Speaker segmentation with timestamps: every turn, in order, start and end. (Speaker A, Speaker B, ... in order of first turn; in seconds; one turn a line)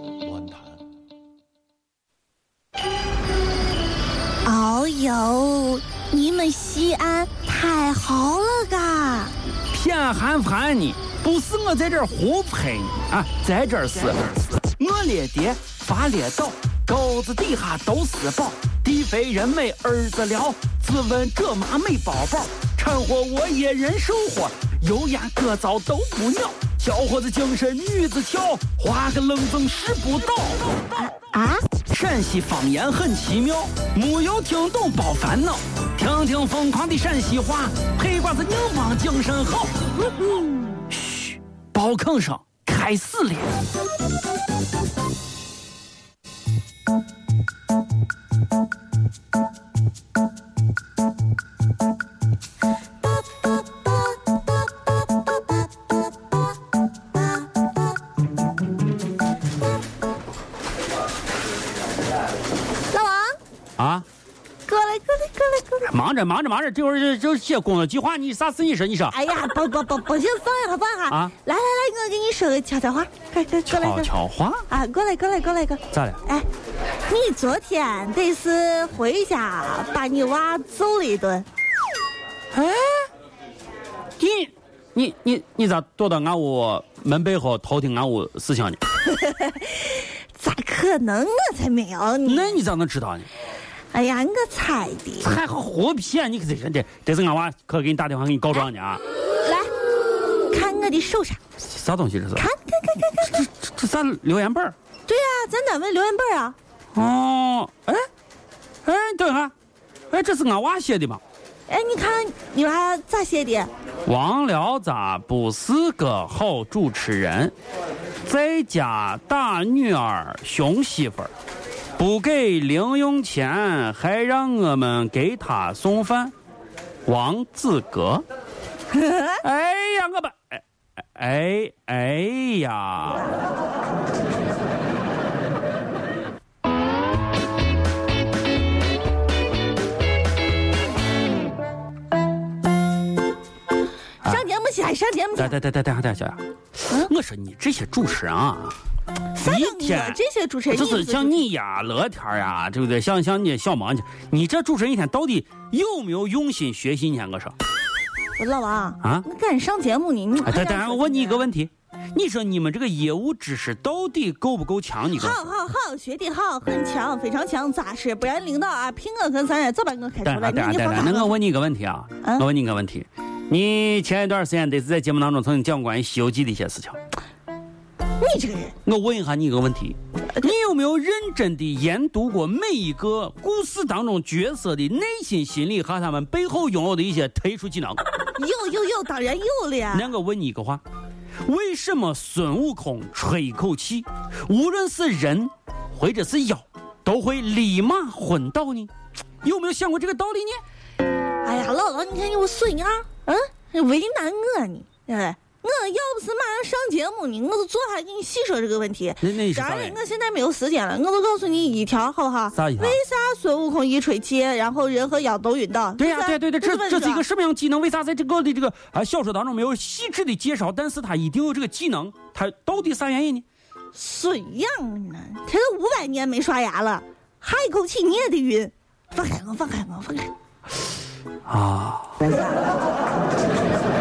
Speaker A: 4.4-9.3
Speaker B: 9.7-30.8
Speaker A: 31.3-31.6
Speaker B: 31.9-39.8
Speaker B: 40.9-43.6
Speaker A: 62.9-63.4
Speaker B: 63.8-64.0
Speaker A: 64.7-65.9
Speaker B: 65.9-69.1
Speaker A: 69.1-74.1
Speaker B: 73.7-74.6
Speaker A: 74.7-76.5
Speaker B: 75.9-76.2
Speaker A: 77.1-81.5
Speaker B: 82.5-83.1
Speaker B: 84.2-88.8
Speaker A: 89.1-92.6
Speaker B: 92.2-93.3
Speaker A: 93.9-95.4
Speaker B: 95.2-99.0
Speaker A: 99.4-99.7
Speaker A: 100.5-101.4
Speaker B: 101.7-102.5
Speaker A: 102.3-103.4
Speaker B: 103.2-104.7
Speaker A: 105.1-106.5
Speaker B: 106.9-108.1
Speaker B: 108.8-109.5
Speaker B: 110.1-111.2
Speaker A: 111.7-113.7
Speaker B: 114.0-117.5
Speaker B: 118.2-121.3
Speaker B: 122.0-126.3
Speaker B: 127.1-128.2
Speaker A: 128.9-129.4
Speaker B: 129.4-130.6
Speaker B: 131.1-133.3
Speaker A: 144.2-145.6
Speaker B: 145.4-148.8
Speaker A: 149.3-151.4
Speaker B: 149.3-157.5
Speaker A: 158.4-161.4
Speaker B: 160.4-165.4
Speaker A: 165.1-171.3
Speaker B: 170.2-176.9
Speaker A: 178.2-178.7
Speaker B: 178.8-188.0
Speaker A: 188.3-190.1
Speaker B: 189.9-190.8
Speaker B: 191.4-198.9
Speaker B: 199.4-200.6
Speaker A: 201.4-217.2
Speaker B: 209.2-210.0
Speaker B: 212.5-213.0
Speaker B: 216.0-223.4
Speaker A: 223.9-230.3
Speaker B: 231.4-232.2